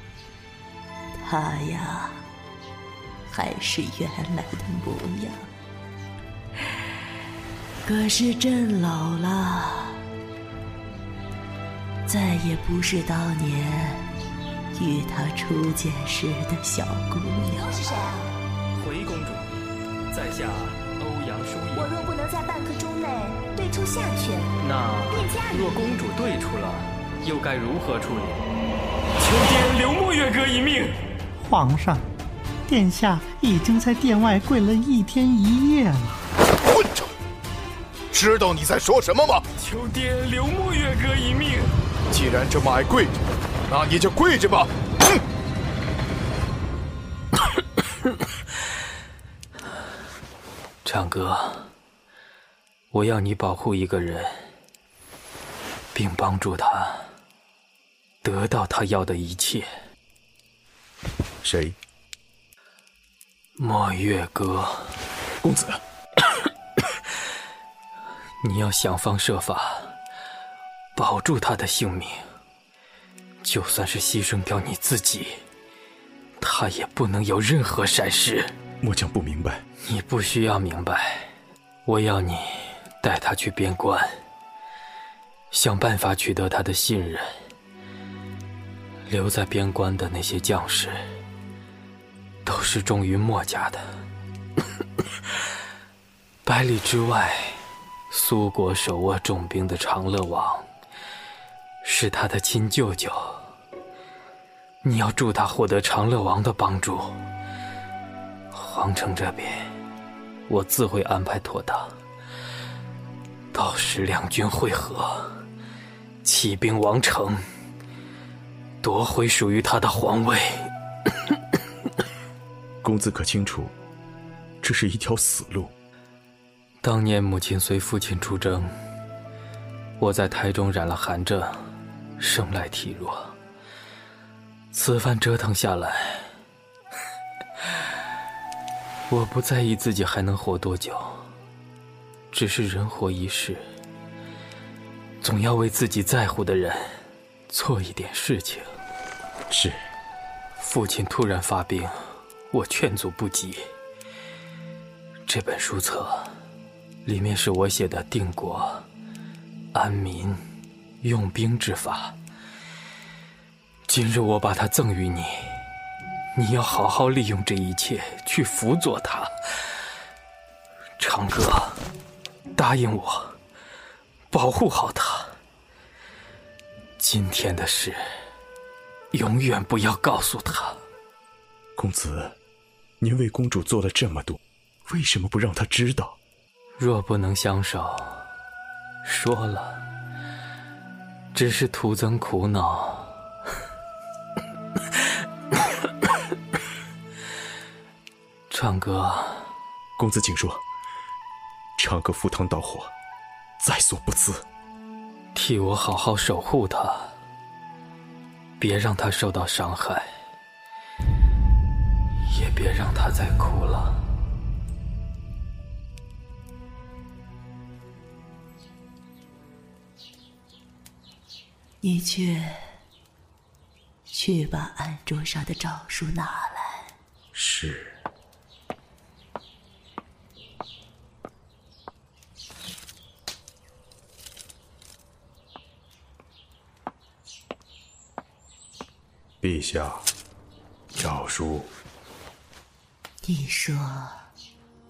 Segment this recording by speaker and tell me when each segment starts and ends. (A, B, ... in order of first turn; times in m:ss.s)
0:01.2-0:02.2 A
0:03.3-0:05.5 A
0:07.8-0:10.0 A
0:12.1-0:14.1 A
0:14.7-0:18.0 A
0:17.5-0:18.3 B
0:18.8-0:19.5 C
0:20.1-0:21.9 C
0:21.7-0:24.5 B
0:24.6-0:28.4 C
0:25.1-0:25.9 B
0:29.2-0:31.0 C
0:31.4-0:32.0 D
0:32.7-0:36.2 D
0:36.7-0:37.1 E
0:38.1-0:39.4 E
0:39.6-0:41.7 C
0:42.1-0:45.2 E
0:50.8-0:51.7 C
0:52.9-0:54.5 C
0:55.9-0:57.1 C
0:58.2-0:59.7 C
1:01.4-1:01.8 F
1:03.6-1:05.0 C
1:05.4-1:05.8 F
1:08.4-1:09.9 C
1:11.0-1:12.2 C
1:13.4-1:15.4 C
1:16.4-1:18.5 C
1:18.8-1:19.6 F
1:19.8-1:21.3 C
1:21.8-1:24.2 C
1:25.5-1:27.3 C
1:29.1-1:31.0 C
1:32.4-1:33.8 C
1:36.4-1:40.6 C
1:41.8-1:43.5 C
1:44.8-1:47.2 C
1:48.5-1:49.7 C
1:50.5-1:51.9 C
1:53.5-1:55.4 C
1:56.2-1:57.4 C
1:58.8-2:00.7 C
2:02.8-2:03.7 F
2:04.6-2:05.7 F
2:06.8-2:08.7 C
2:10.0-2:11.7 C
2:12.2-2:13.3 C
2:14.7-2:16.3 C
2:19.1-2:21.2 C
2:22.3-2:23.6 C
2:25.2-2:28.7 C
2:29.5-2:29.8 F
2:30.6-2:33.6 C
2:35.3-2:36.3 C
2:37.0-2:38.8 C
2:39.7-2:40.4 C
2:41.0-2:42.2 C
2:43.9-2:45.6 C
2:46.3-2:49.3 C
2:51.0-2:51.8 C
2:52.5-2:53.4 C
2:54.3-2:55.3 C
2:57.0-2:58.0 C
2:59.1-3:00.8 C
3:01.8-3:02.4 F
3:03.0-3:06.2 F
3:06.8-3:08.2 C
3:09.0-3:09.8 C
3:11.3-3:13.2 C
3:18.5-3:19.5 C
3:20.0-3:20.6 F
3:21.8-3:22.9 F
3:23.6-3:24.4 F
3:25.3-3:27.2 C
3:28.6-3:30.1 C
3:32.3-3:34.0 C
3:41.8-3:42.7 A
3:44.1-3:46.9 A
3:47.3-3:48.0 F
3:59.4-4:00.1 F
4:01.0-4:01.7 F
4:03.2-4:04.2 A